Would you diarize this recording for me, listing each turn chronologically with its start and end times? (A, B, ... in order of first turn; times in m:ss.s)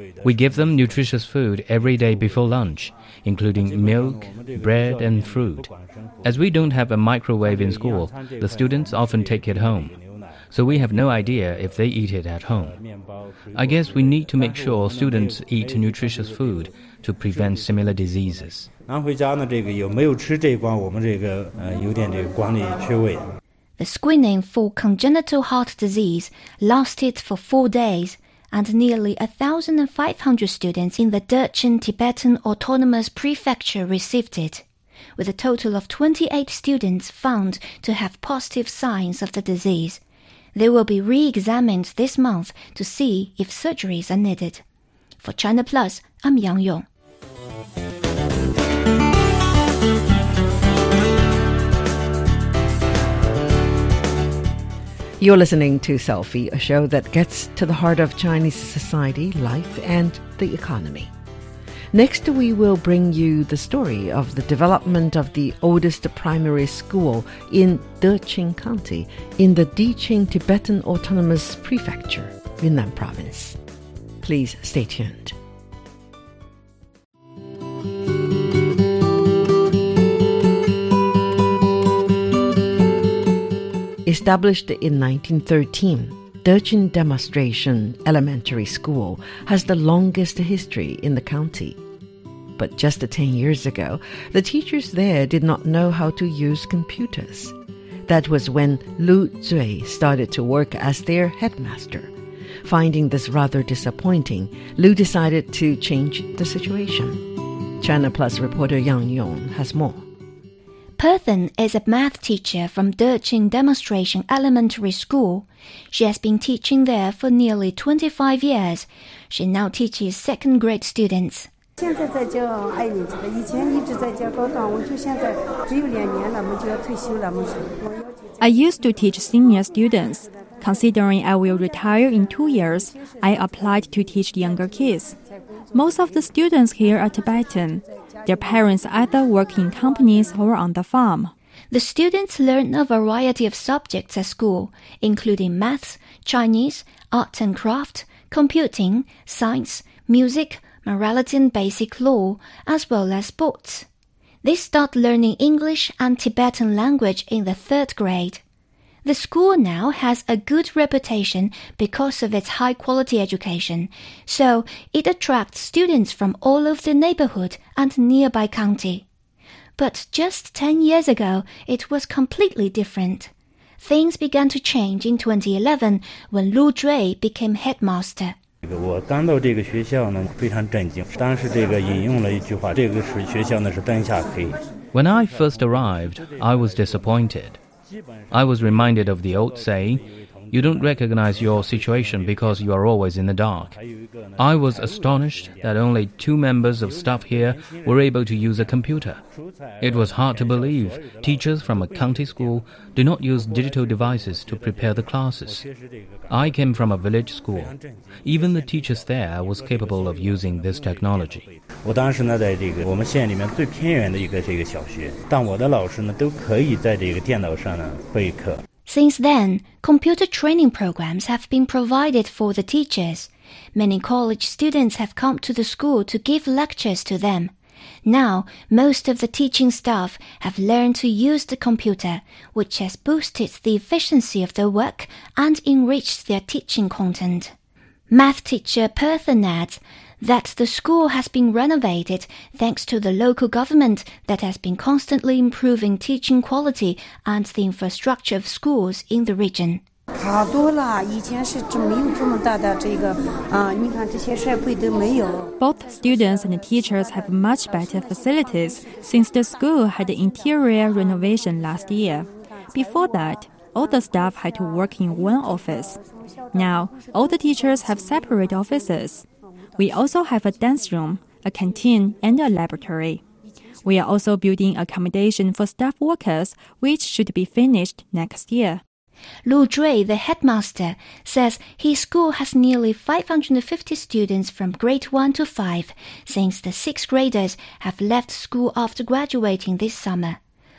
0:00.2-0:05.7 A
0:04.4-0:04.8 B
0:06.2-0:10.0 A
0:07.7-0:08.4 B
0:10.5-0:12.8 A
0:13.5-0:18.7 A
0:18.9-0:23.3 B
0:23.8-0:34.6 C
0:35.2-0:40.0 C
0:40.5-0:44.6 C
0:45.2-0:46.8 C
0:55.2-1:01.1 D
1:01.9-1:13.6 D
1:14.2-1:15.4 D
1:24.0-1:31.8 D
1:32.6-1:37.5 D
1:38.1-1:42.1 D
1:42.6-1:50.0 D
1:51.0-2:01.5 C
2:01.8-2:08.0 E
2:08.4-2:15.2 F
2:15.7-2:21.3 F
2:21.7-2:33.8 C
2:34.4-2:38.4 C
2:39.0-2:49.0 C
2:49.8-2:58.4 C
2:58.6-3:04.6 B
3:04.9-3:07.6 A
3:08.3-3:13.8 A
3:14.4-3:19.2 A
3:19.8-3:25.7 A
3:26.3-3:31.5 A
3:31.8-3:38.6 B
3:38.8-3:47.5 C
3:48.0-3:57.5 C
3:58.1-4:09.8 C
4:10.2-4:15.5 E
4:15.6-4:26.0 F
4:26.5-4:29.2 F
4:29.8-4:33.2 F
4:33.8-4:38.8 F
4:39.4-4:50.4 C